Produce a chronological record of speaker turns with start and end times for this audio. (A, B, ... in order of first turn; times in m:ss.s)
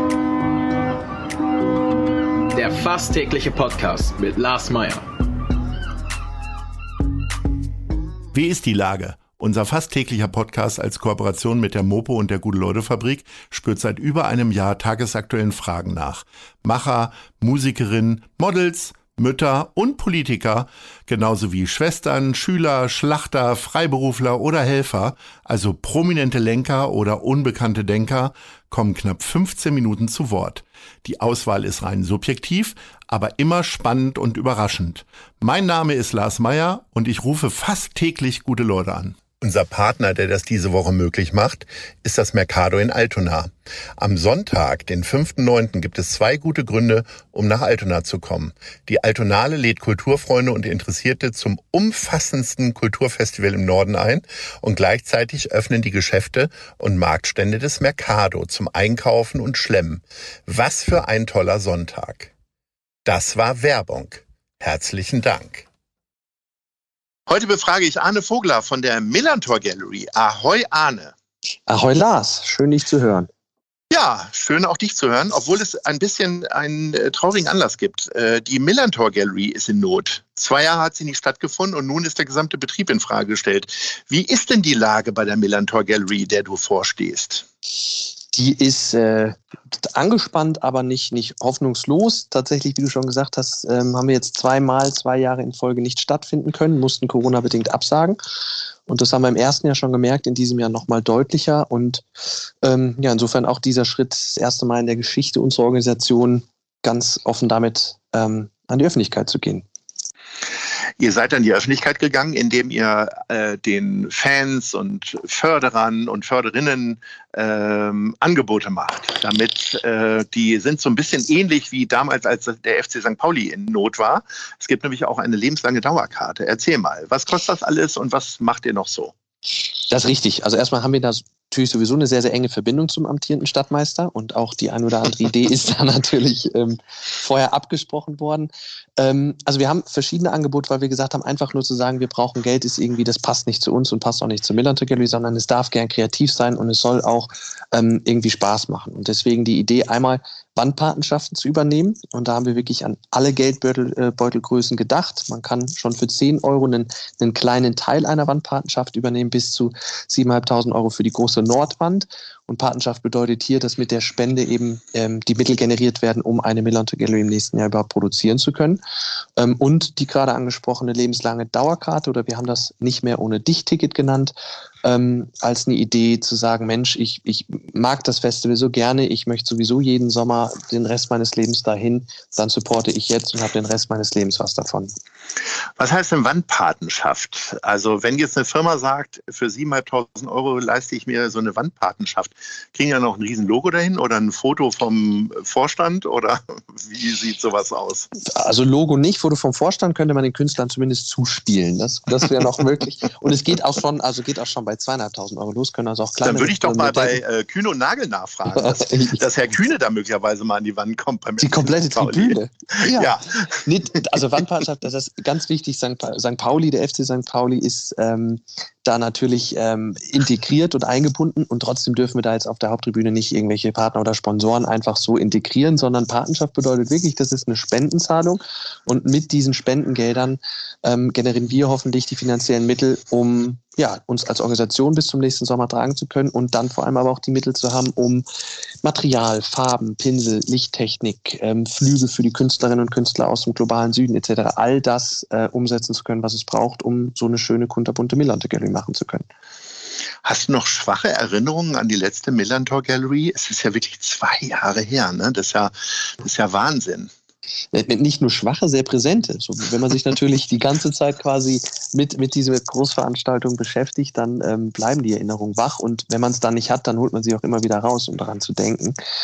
0:02.5-0:05.0 A
0:08.3-1:02.3 B
1:03.0-1:05.7 B
1:07.3-1:11.1 B
1:11.7-1:13.3 C
1:13.9-1:27.4 B
1:28.3-1:38.2 C
1:38.9-1:42.0 C
1:42.6-1:49.6 C
1:51.0-2:09.1 B
2:09.9-2:48.8 C
2:49.4-3:04.9 C
3:05.8-3:18.1 B
3:18.2-3:27.2 C
3:26.2-3:33.6 B
3:28.5-3:29.2 C
3:31.4-3:58.2 C
3:58.8-4:09.3 C
4:10.2-4:17.1 B
4:17.7-4:29.0 C